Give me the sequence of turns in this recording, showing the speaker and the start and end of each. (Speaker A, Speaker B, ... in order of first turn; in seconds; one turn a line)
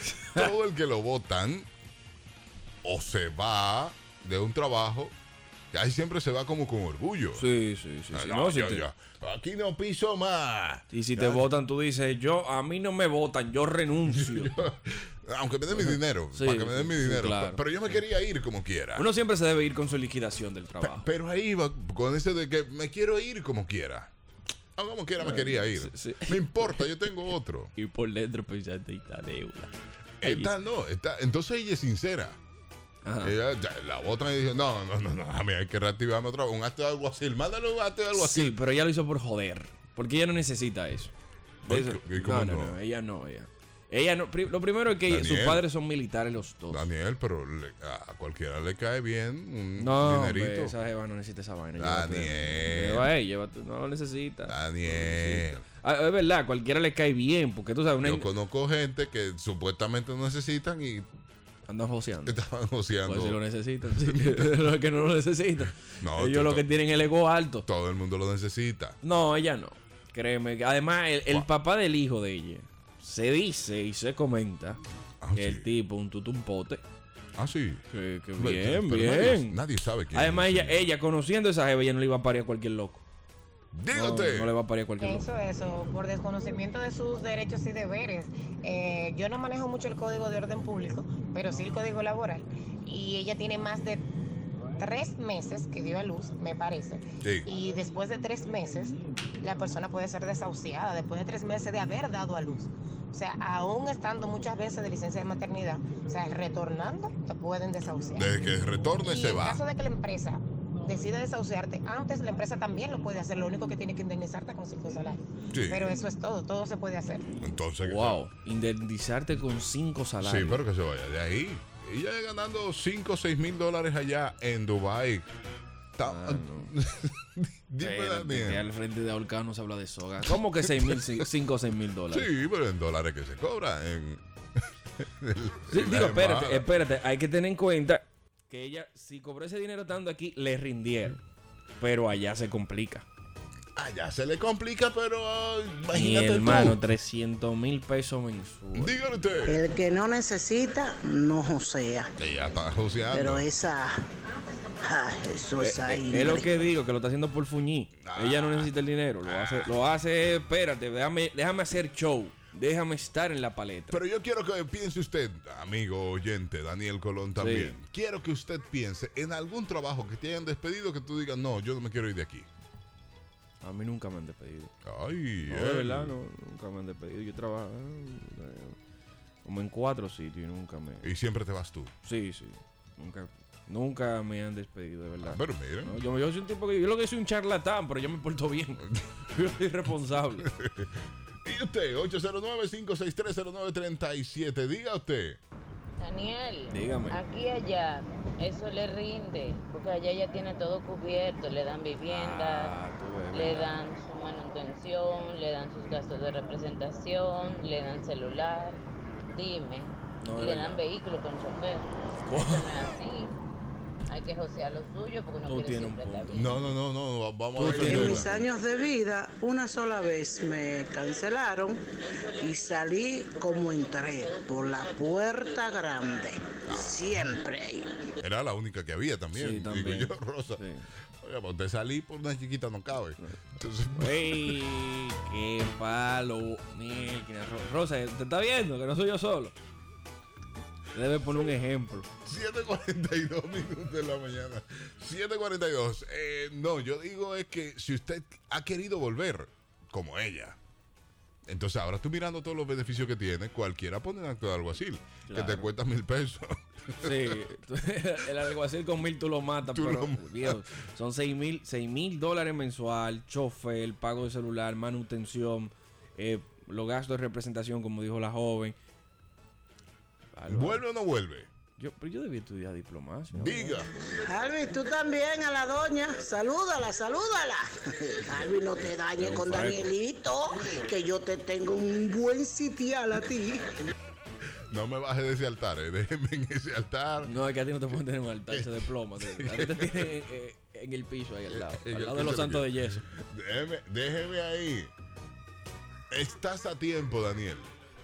Speaker A: 0.2-1.7
Speaker A: 2.8-5.1
Speaker A: 5.7-7.4
Speaker B: 7.3-8.9
Speaker A: 8.1-11.5
Speaker B: 10.9-14.6
Speaker A: 14.1-19.1
Speaker B: 15.7-18.0
Speaker B: 18.9-21.1
Speaker A: 20.8-24.1
Speaker A: 24.8-27.7
Speaker B: 25.2-30.5
Speaker A: 30.2-32.4
Speaker B: 33.0-33.4
Speaker A: 33.2-38.6
Speaker B: 38.1-41.1
Speaker B: 41.6-46.9
Speaker A: 41.7-42.8
Speaker A: 45.1-45.7
Speaker A: 46.7-50.7
Speaker B: 49.8-58.3
Speaker A: 51.8-53.1
Speaker A: 54.5-55.6
Speaker A: 58.0-61.1
Speaker B: 61.7-62.4
Speaker A: 62.2-64.5
Speaker B: 63.0-67.7
Speaker A: 66.0-66.7
Speaker A: 67.7-69.0
Speaker B: 69.0-74.8
Speaker A: 75.2-75.7
Speaker B: 75.3-76.8
Speaker A: 77.4-77.8
Speaker B: 77.9-79.6
Speaker A: 78.4-80.8
Speaker B: 80.1-83.0
Speaker A: 83.7-84.5
Speaker B: 83.9-85.3
Speaker C: 85.0-94.1
Speaker C: 94.8-108.3
Speaker A: 108.1-109.6
Speaker C: 109.0-117.2
Speaker A: 115.5-115.9
Speaker A: 117.4-118.2
Speaker B: 117.8-120.6
Speaker A: 120.2-125.2
Speaker A: 126.0-128.7
Speaker B: 126.0-126.7
Speaker B: 127.8-132.3
Speaker A: 130.6-131.3
Speaker A: 132.1-134.2
Speaker A: 135.0-136.7
Speaker B: 135.7-141.2
Speaker B: 141.8-143.1
Speaker A: 143.8-146.8
Speaker B: 145.9-149.0
Speaker A: 148.7-149.6
Speaker D: 149.4-152.1
Speaker A: 152.2-153.5
Speaker D: 153.1-154.0
Speaker D: 154.8-156.5
Speaker B: 155.6-164.0
Speaker A: 158.0-158.7
Speaker A: 159.2-159.7
Speaker A: 163.9-172.5
Speaker B: 167.4-167.8
Speaker B: 173.6-174.7
Speaker A: 174.8-176.2
Speaker B: 175.5-178.8
Speaker B: 179.4-181.1
Speaker A: 181.0-181.9
Speaker B: 182.0-190.5
Speaker A: 185.2-185.9
Speaker A: 190.4-190.9
Speaker A: 191.4-195.4
Speaker E: 196.0-202.8
Speaker B: 196.7-197.2
Speaker B: 202.1-203.8
Speaker E: 203.3-208.8
Speaker E: 209.3-213.3
Speaker B: 210.2-210.8
Speaker B: 212.3-212.7
Speaker E: 214.1-216.6
Speaker B: 215.4-216.6
Speaker A: 216.3-218.3
Speaker B: 217.5-218.5
Speaker D: 217.6-221.8
Speaker D: 222.4-227.9
Speaker A: 226.7-227.2
Speaker A: 228.2-230.6
Speaker B: 229.3-230.9
Speaker A: 231.2-234.6
Speaker B: 233.9-239.6
Speaker B: 240.9-242.1
Speaker A: 242.2-250.6
Speaker A: 251.4-257.4
Speaker B: 255.2-255.7
Speaker B: 257.0-268.8
Speaker A: 259.7-260.6
Speaker B: 270.3-270.8
Speaker A: 270.5-271.5
Speaker B: 271.8-273.8
Speaker A: 273.3-273.9
Speaker D: 274.2-283.7
Speaker B: 279.2-279.9
Speaker A: 284.7-287.3
Speaker B: 287.2-293.0
Speaker A: 288.5-290.1
Speaker A: 291.5-294.9
Speaker A: 296.1-297.7